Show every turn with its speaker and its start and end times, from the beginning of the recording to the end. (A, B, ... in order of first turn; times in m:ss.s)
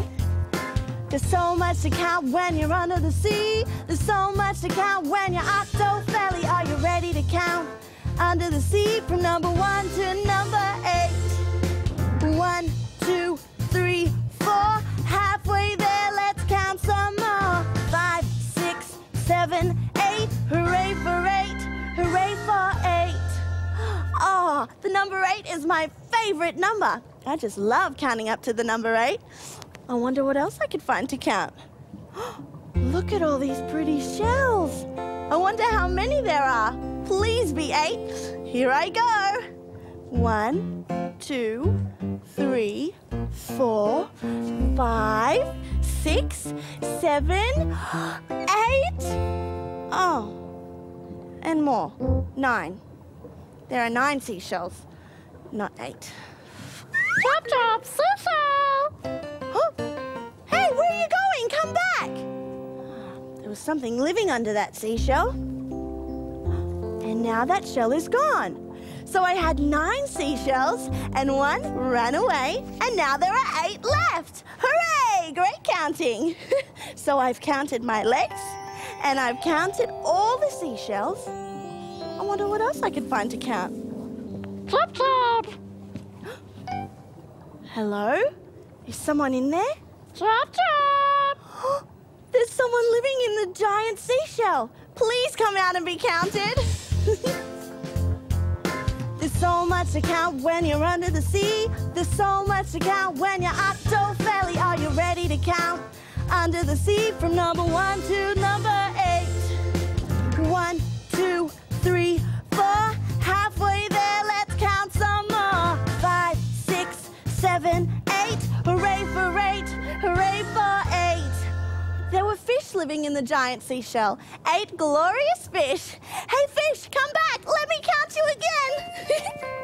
0:01.1-0:11.5 A
0:12.2-0:29.2 A
0:29.9-0:31.6 A
0:32.2-0:39.5 A
0:40.1-0:49.2 A
0:49.9-0:50.4 A
0:51.4-0:52.8 A
0:53.7-0:54.8 A
0:55.5-0:56.2 A
0:57.2-0:58.9 B
1:00.5-1:02.2 A
1:03.2-1:05.4 A
1:07.0-1:21.3 A
1:22.2-1:23.8 A
1:24.7-1:25.6 B
1:27.7-1:28.3 A
1:28.8-1:29.8 A
1:30.2-1:31.4 B
1:31.4-1:37.4 A
1:39.2-1:49.7 A
1:50.3-2:01.5 A
2:02.1-2:09.4 A